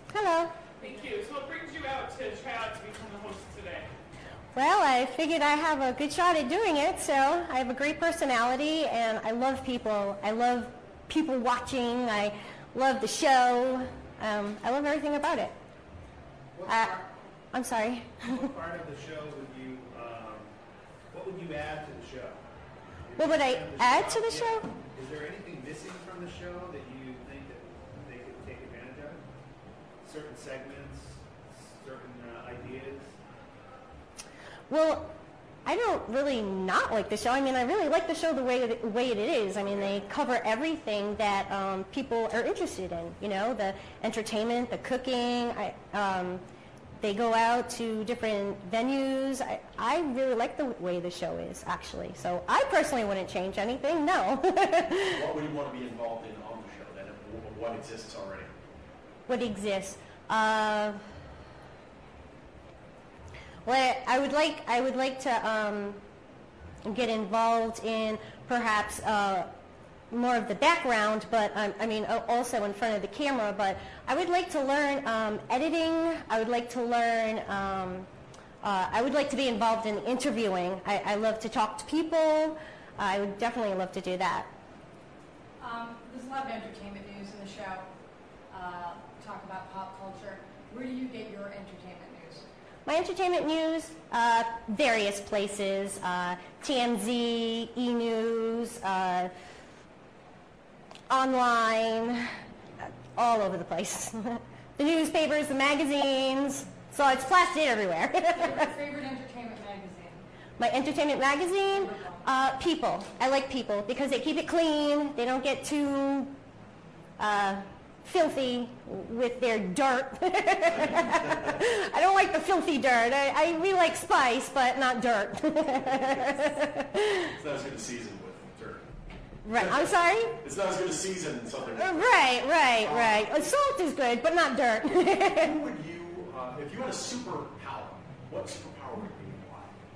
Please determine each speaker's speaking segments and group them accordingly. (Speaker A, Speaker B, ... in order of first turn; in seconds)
Speaker A: 0.1-0.6, 4.5-15.5, 16.7-17.0, 17.5-18.4, 23.2-24.6, 34.7-35.1, 35.6-46.4, 47.0-55.2, 59.3-61.0, 63.6-66.0, 66.8-69.5, 70.1-78.1, 78.6-84.5, 92.8-99.3, 101.1-102.2, 103.1-108.7, 110.6-116.3, 117.2-127.2, 129.4-130.4, 131.7-135.6
Speaker B: 0.8-3.9
Speaker C: 16.5-17.1, 18.2-20.5, 21.1-22.4, 23.0-29.2, 30.0-33.1, 39.6-39.9
Speaker D: 55.1-58.5, 120.7-121.5, 127.3-128.9, 129.5-132.2, 132.8-133.4, 135.4-139.7
Speaker E: 85.6-87.9, 88.5-92.5, 108.4-110.2, 111.7-112.3